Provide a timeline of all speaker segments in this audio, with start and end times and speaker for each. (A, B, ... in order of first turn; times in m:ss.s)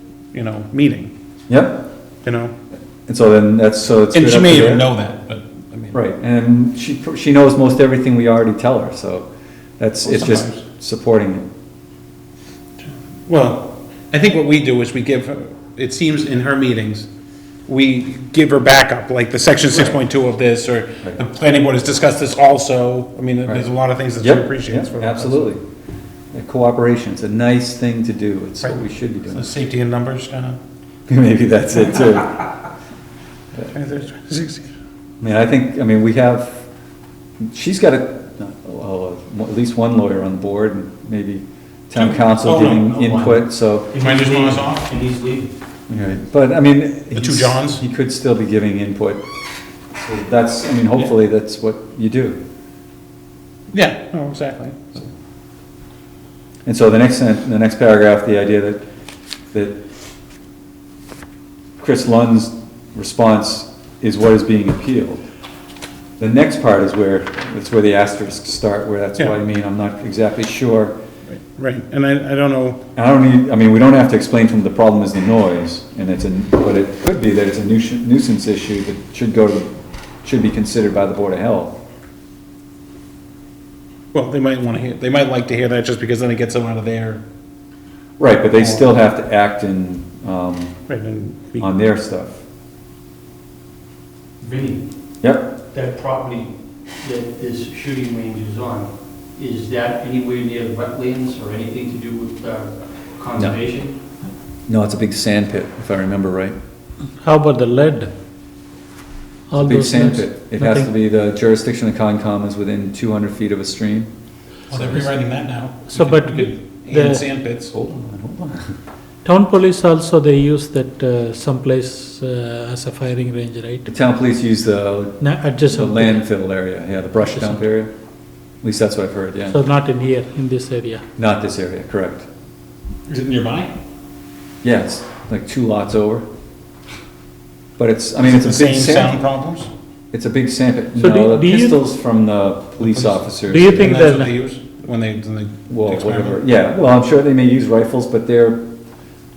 0:00.3-0:01.1 A
0:01.5-0:01.8 B
0:02.2-0:02.6 A
0:03.1-0:04.9 B
0:04.1-0:05.9 A
0:05.9-0:11.5 B
0:10.0-0:10.6 A
0:13.2-0:17.1 A
0:17.7-0:25.5 A
0:19.7-0:20.0 B
0:24.2-0:25.6 B
0:26.3-0:29.5 B
0:28.6-0:30.6 A
0:31.1-0:32.6 B
0:33.6-0:34.7 A
0:35.2-0:36.7 B
0:37.5-0:43.9 B
0:41.9-0:43.0 A
0:43.0-0:43.4 C
0:43.9-0:45.5 C
0:43.9-0:44.9 A
0:45.9-0:49.2 B
0:47.1-0:47.8 A
0:50.0-0:52.4 B
0:53.7-0:55.1 A
0:56.6-0:58.8 B
0:59.5-0:59.8 B
1:01.8-1:05.2 B
1:06.2-1:11.0 B
1:11.3-1:12.8 A
1:13.0-1:19.7 B
1:20.2-1:21.8 B
1:24.1-1:27.2 A
1:28.2-1:30.8 B
1:30.9-1:31.7 A
1:31.6-1:32.4 B
1:34.4-1:34.8 C
1:35.2-1:35.6 B
1:35.7-1:44.0 C
1:44.7-1:46.5 B
1:47.2-1:48.1 D
1:49.5-1:50.9 D
1:49.6-1:54.1 B
1:54.7-1:57.7 A
1:55.9-1:57.2 D
1:57.7-1:58.7 B
1:59.2-2:03.9 D
2:03.9-2:07.9 B
2:05.2-2:06.2 D
2:07.2-2:07.6 D
2:08.6-2:09.6 B
2:09.5-2:11.0 D
2:11.2-2:12.3 B
2:13.1-2:13.7 A
2:14.6-2:16.2 B
2:17.8-2:19.2 B
2:18.2-2:19.7 A
2:20.1-2:24.0 B
2:21.0-2:21.8 D
2:22.8-2:23.2 A
2:23.5-2:24.3 D
2:23.7-2:26.4 A
2:25.7-2:28.7 B